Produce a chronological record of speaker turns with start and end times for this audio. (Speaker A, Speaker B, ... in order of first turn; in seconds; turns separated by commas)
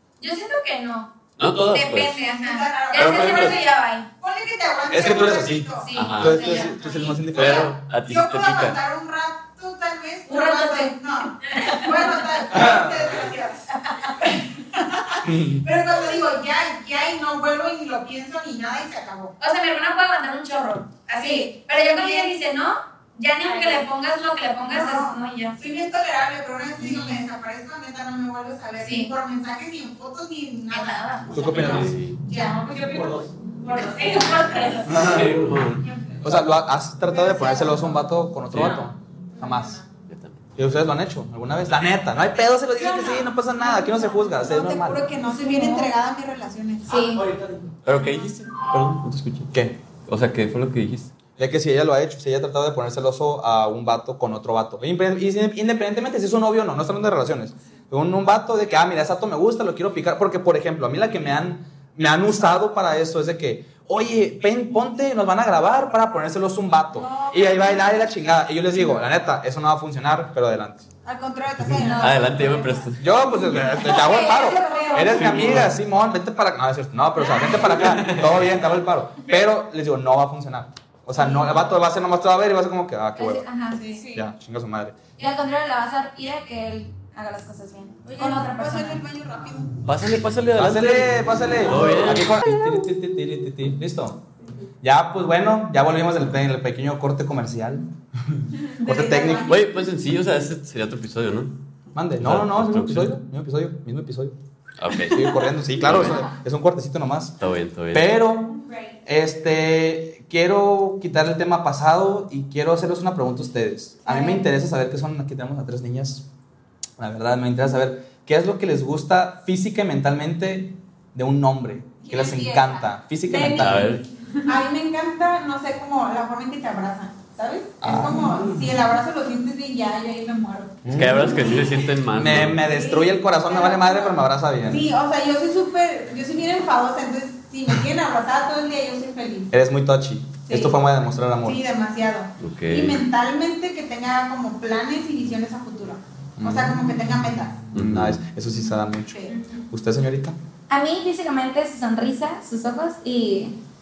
Speaker A: 0.2-1.1, Speaker B: 1.4-2.2, Speaker A: 1.7-4.1, Speaker C: 2.1-5.9, Speaker B: 2.9-3.6, Speaker D: 4.9-7.7, Speaker A: 5.8-7.2, Speaker B: 5.9-6.6, Speaker B: 7.3-8.8, Speaker C: 7.3-13.7, Speaker A: 10.3-12.2, Speaker D: 12.5-13.3, Speaker A: 13.8-14.2, Speaker C: 14.2-19.3, Speaker D: 15.2-15.6, Speaker A: 19.4-25.6, Speaker C: 21.1-22.3, Speaker E: 23.4-23.8, Speaker C: 24.7-32.7, Speaker A: 26.8-27.2, Speaker A: 28.8-29.1, Speaker A: 30.7-31.6, Speaker D: 31.3-31.9, Speaker B: 31.4-32.2, Speaker E: 32.3-35.1, Speaker A: 34.0-35.2, Speaker D: 34.9-35.5, Speaker B: 34.9-35.9, Speaker C: 36.1-36.4, Speaker D: 36.2-39.8, Speaker C: 37.1-37.9, Speaker B: 38.5-38.9, Speaker E: 38.6-39.9, Speaker B: 40.1-40.4, Speaker D: 40.5-45.0, Speaker E: 42.8-43.2, Speaker C: 43.7-47.1, Speaker A: 45.4-45.9, Speaker A: 46.9-47.2, Speaker D: 47.0-47.7, Speaker B: 47.8-51.1, Speaker D: 49.5-49.8, Speaker D: 51.4-70.8, Speaker C: 66.9-68.1, Speaker C: 71.0-72.7, Speaker A: 71.8-72.8, Speaker B: 71.8-73.0, Speaker D: 73.0-83.5, Speaker A: 73.7-75.2, Speaker C: 73.8-75.7, Speaker B: 75.2-75.7, Speaker C: 77.3-77.6, Speaker B: 77.6-78.5, Speaker A: 81.2-81.5, Speaker A: 83.2-83.8, Speaker C: 83.7-84.0, Speaker E: 83.9-84.3, Speaker D: 84.1-84.9, Speaker A: 85.2-89.0, Speaker C: 88.0-89.8, Speaker B: 89.8-92.5, Speaker D: 90.5-94.2, Speaker D: 94.8-99.5, Speaker C: 98.8-99.6, Speaker B: 99.5-101.5, Speaker D: 101.9-104.3, Speaker B: 102.2-103.2, Speaker B: 104.8-106.3, Speaker D: 105.1-107.3, Speaker B: 107.4-108.1, Speaker D: 107.9-116.2, Speaker E: 108.6-108.9, Speaker A: 114.0-114.4, Speaker D: 117.0-124.0, Speaker C: 122.0-131.9, Speaker B: 123.4-124.4, Speaker D: 127.8-128.8, Speaker D: 130.8-134.9, Speaker B: 130.9-132.6, Speaker C: 132.6-139.5, Speaker D: 139.5-141.6, Speaker C: 140.5-140.8, Speaker C: 141.4-147.6, Speaker B: 142.4-143.0, Speaker D: 146.4-146.9, Speaker D: 147.7-149.2, Speaker B: 147.7-148.2, Speaker E: 149.3-149.6, Speaker D: 149.7-150.3, Speaker A: 150.7-153.6